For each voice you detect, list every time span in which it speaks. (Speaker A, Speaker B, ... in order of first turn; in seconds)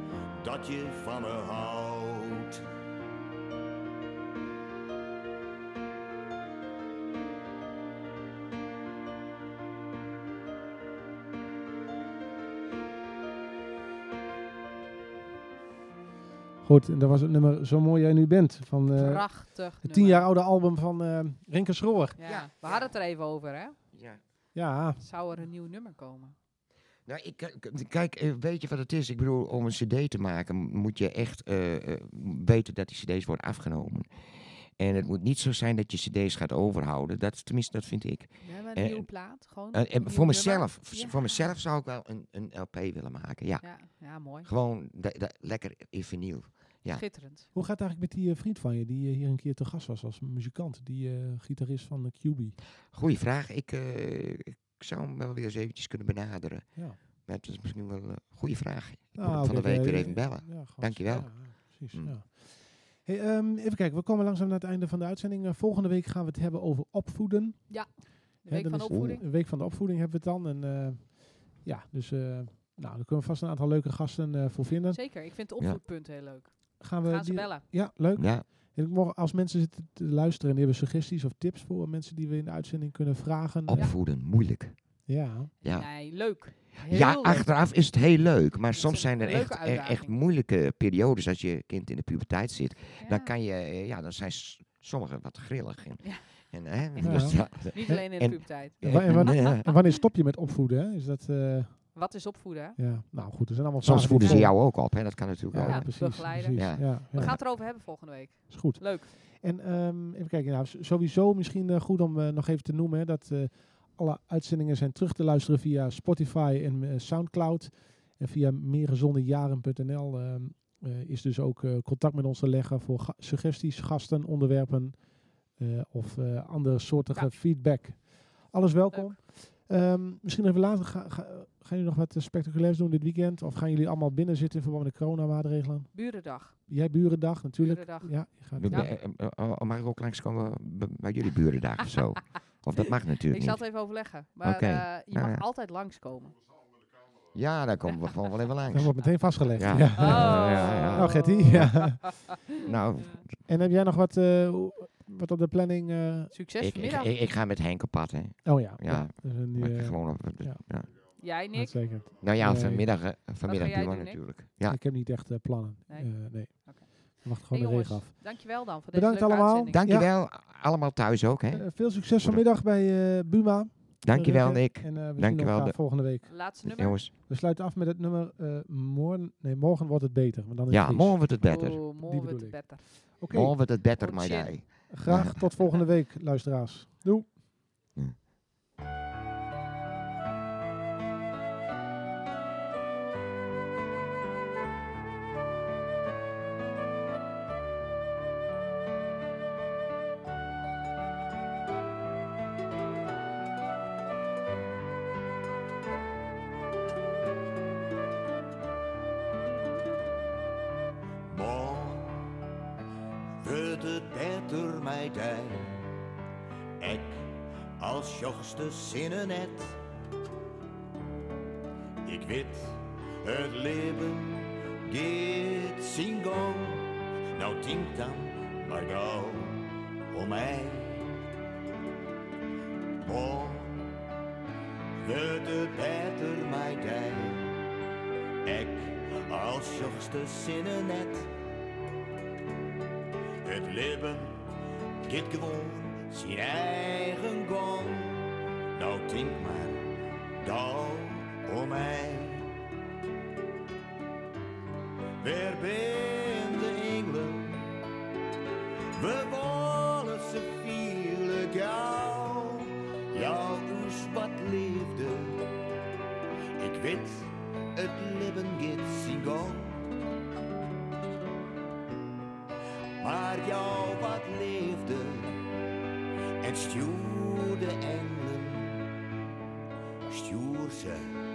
Speaker A: 0.4-2.6, 211.3-212.3, 213.4-215.9, 216.8-219.8, 222.0-231.2, 233.0-233.9, 235.0-237.6, 238.4-241.3, 243.4-244.5, 245.1-252.5, 255.2-257.8, 258.9-265.5, 266.6-269.9, 273.0-275.4, 276.4-278.9, 280.1-281.1
Speaker B: 16.6-22.2, 24.5-25.0, 47.5-52.6, 56.7-57.0, 59.1-75.0, 76.8-83.9, 85.0-85.5, 97.0-102.1, 102.8-105.0, 105.5-138.9, 148.7-152.1, 153.4-156.3, 158.4-160.7, 161.5-162.9, 164.6-170.1, 171.5-176.5, 177.2-183.6, 184.9-187.4
Speaker C: 18.9-20.3, 22.1-23.8, 25.0-26.3, 38.4-41.5, 43.6-44.5, 46.9-47.5, 67.7-69.2, 74.9-77.6, 85.6-87.5, 88.7-90.2, 93.0-93.3, 96.9-99.7, 101.9-102.8, 104.2-104.5, 105.6-109.1, 128.9-129.2, 135.9-136.6, 137.6-138.9, 143.3-146.4, 149.9-151.9, 152.9-153.2, 156.3-157.1, 161.2-161.8, 163.4-164.2, 165.9-169.8, 176.2-177.0, 181.4-183.2, 183.9-184.9
Speaker D: 22.2-22.9, 23.9-24.2, 27.1-47.0, 52.9-62.1, 68.9-69.2, 78.1-78.5, 83.7-85.0, 85.6-99.6, 103.8-107.3, 138.6-143.8, 144.4-145.4, 147.3-148.9, 149.5-153.4, 156.6-160.9, 162.2-164.8, 169.7-172.4, 174.0-175.8, 176.6-177.1, 180.7-181.8, 183.3-185.4